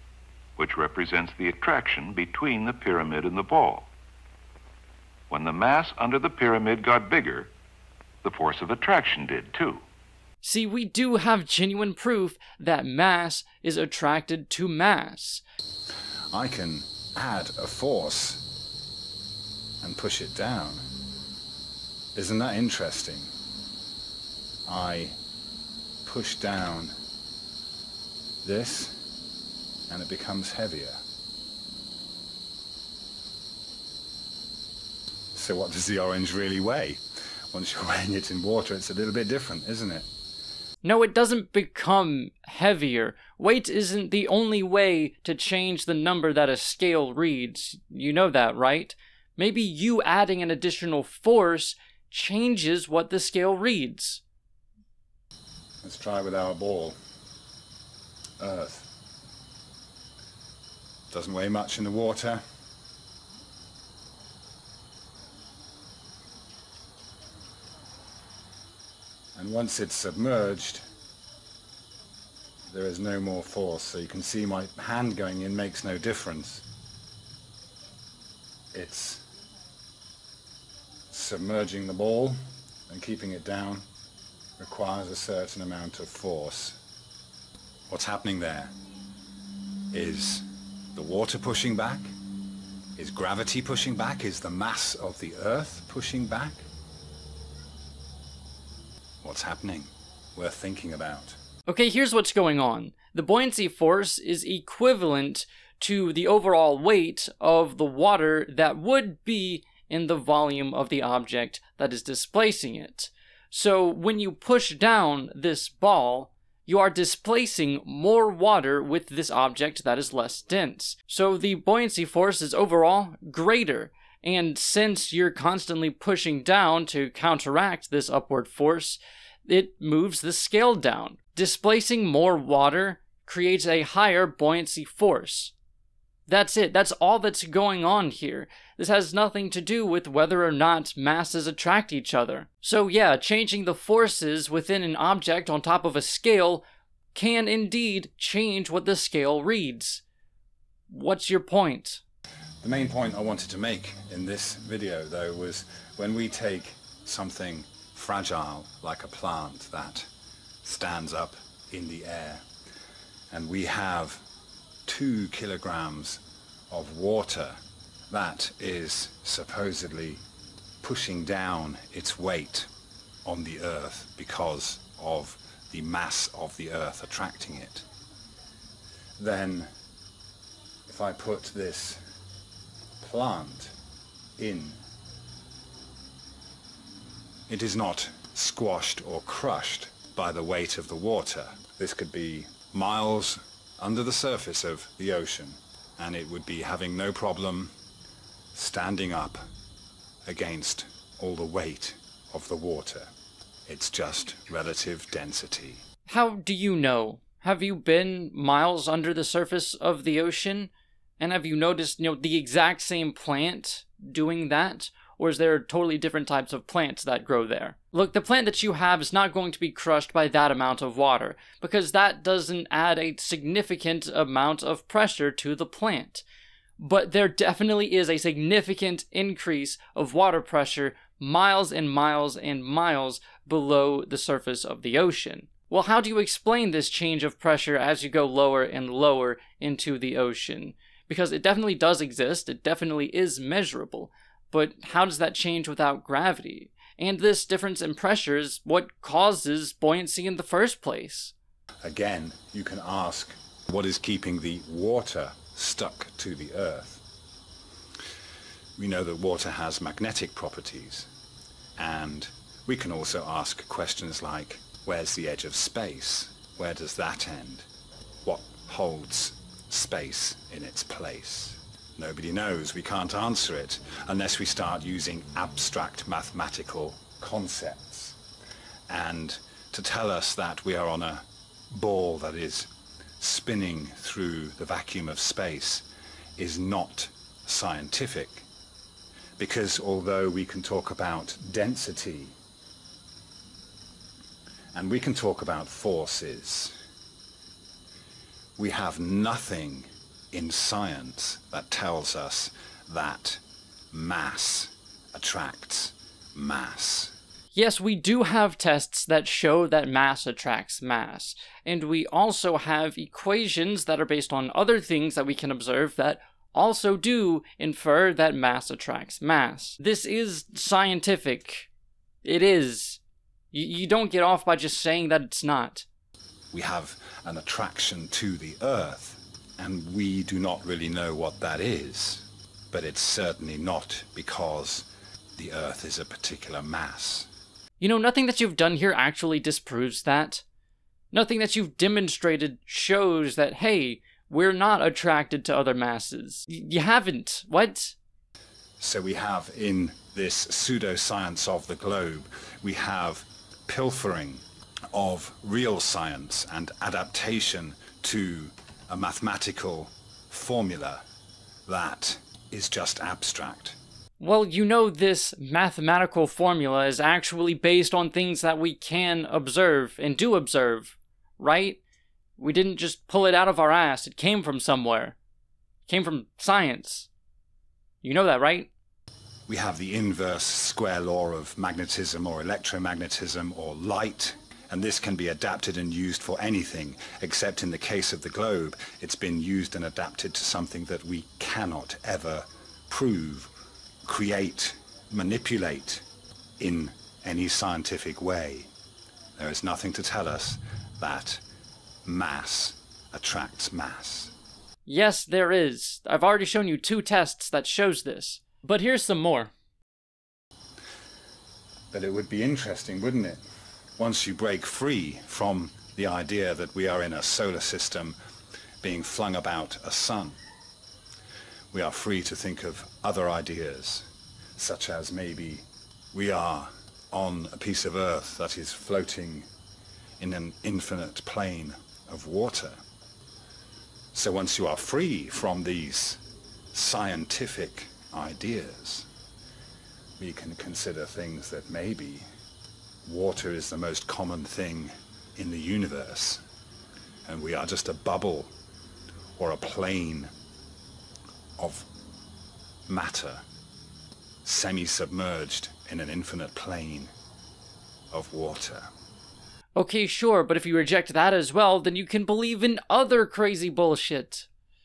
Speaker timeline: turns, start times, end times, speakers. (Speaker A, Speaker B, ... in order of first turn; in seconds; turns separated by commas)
Speaker A: 0.6-3.9, Speaker A: 5.3-7.5, Speaker A: 8.2-9.8, Speaker B: 10.4-15.4, Speaker C: 16.3-18.5, Speaker C: 19.8-20.8, Speaker C: 22.1-23.3, Speaker C: 24.7-25.1, Speaker C: 26.0-26.9, Speaker C: 28.4-29.0, Speaker C: 29.9-31.0, Speaker C: 35.3-37.0, Speaker C: 37.5-40.1, Speaker B: 40.8-54.2, Speaker C: 55.8-57.0, Speaker C: 58.4-58.9, Speaker C: 61.1-62.4, Speaker C: 69.3-70.8, Speaker C: 72.7-76.6, Speaker C: 78.7-79.2, Speaker C: 81.1-82.4, Speaker C: 82.9-83.8, Speaker C: 84.6-86.8, Speaker C: 87.9-88.7, Speaker C: 89.9-92.1, Speaker C: 93.0-96.6, Speaker C: 99.2-101.4, Speaker B: 101.7-135.5, Speaker B: 136.3-150.0, Speaker B: 150.9-152.0, Speaker C: 152.6-160.1, Speaker C: 160.6-162.4, Speaker C: 163.3-164.2, Speaker C: 164.8-167.6, Speaker C: 168.1-170.2, Speaker C: 170.8-172.7, Speaker C: 173.2-177.8, Speaker C: 179.2-179.7, Speaker C: 180.9-182.0, Speaker C: 183.0-183.7, Speaker C: 184.4-184.8, Speaker C: 187.5-197.7, Speaker C: 198.5-199.4, Speaker C: 200.2-203.1, Speaker C: 203.7-205.8, Speaker B: 206.1-226.2, Speaker B: 226.8-251.3, Speaker C: 251.8-257.0, Speaker C: 258.8-261.1, Speaker C: 261.8-267.6, Speaker C: 268.2-278.2, Speaker C: 278.9-285.9, Speaker C: 286.4-288.4, Speaker C: 289.4-292.3, Speaker C: 294.7-296.8, Speaker C: 298.6-307.1, Speaker B: 307.5-321.7, Speaker B: 322.2-323.0, Speaker B: 323.5-325.9, Speaker C: 326.5-337.3, Speaker B: 337.8-340.4, Speaker B: 341.1-348.0, Speaker C: 348.8-354.4, Speaker C: 354.9-361.0, Speaker C: 361.7-363.8, Speaker B: 364.2-371.8, Speaker B: 372.4-375.2, Speaker B: 375.9-377.1, Speaker B: 378.0-378.7, Speaker C: 379.5-393.5, Speaker C: 394.1-396.1, Speaker C: 396.6-398.7, Speaker C: 399.4-401.4, Speaker C: 402.1-404.3, Speaker B: 404.9-409.5, Speaker C: 411.9-413.4, Speaker C: 414.0-418.1, Speaker C: 418.8-420.4, Speaker C: 421.7-429.5, Speaker C: 430.2-432.8, Speaker C: 434.1-436.2, Speaker C: 436.7-439.1, Speaker C: 440.2-442.2, Speaker C: 443.1-446.4, Speaker C: 447.2-448.5, Speaker C: 449.4-450.3, Speaker C: 451.6-451.9, Speaker C: 452.9-453.4, Speaker C: 454.4-457.1, Speaker C: 458.1-458.9, Speaker B: 459.8-464.5